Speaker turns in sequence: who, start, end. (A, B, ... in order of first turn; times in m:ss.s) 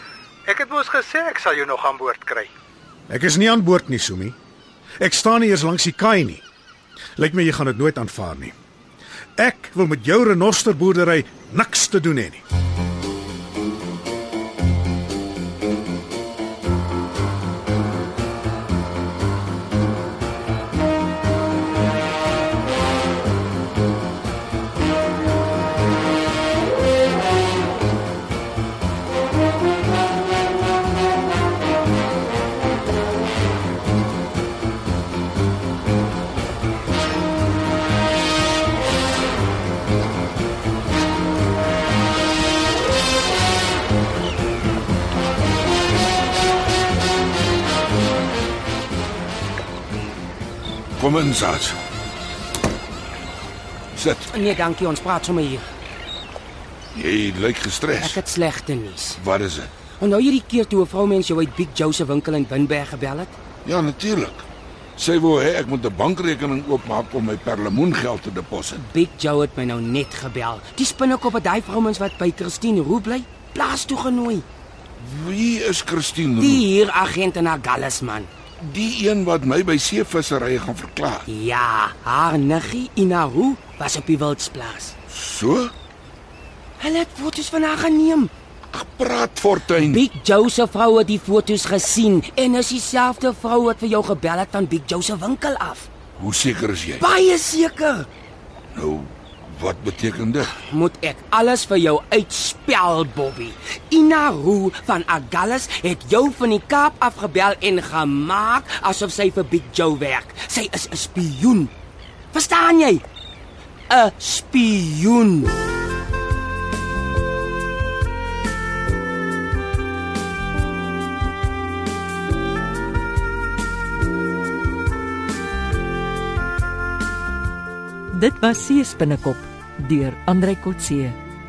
0:00.5-0:02.5 A
0:03.1-0:04.4 B
0:05.0-0:06.4 B
0:07.2-0:08.5 B
0:09.4-0:12.4 B
0:51.0-0:51.8 C
0:53.9-0:54.3 C
0:54.3-0:55.6 D
0:56.9-0:58.2 C
0:58.0-0:59.2 D
0:59.2-0:59.7 C
1:00.0-1:03.3 D
1:03.6-1:04.4 C
1:05.0-1:08.8 C
1:08.7-1:14.4 D
1:15.0-1:16.7 C
1:16.4-1:18.3 D
1:18.6-1:21.2 C
1:21.2-1:24.9 D
1:25.1-1:25.7 C
1:26.8-1:28.3 D
1:28.7-1:30.0 C
1:29.7-1:35.9 D
1:36.2-1:37.1 C
1:37.0-1:38.1 D
1:38.7-1:40.5 C
1:40.6-1:51.7 D
1:52.3-1:53.0 D
1:53.9-1:55.5 D
2:08.1-2:11.2 E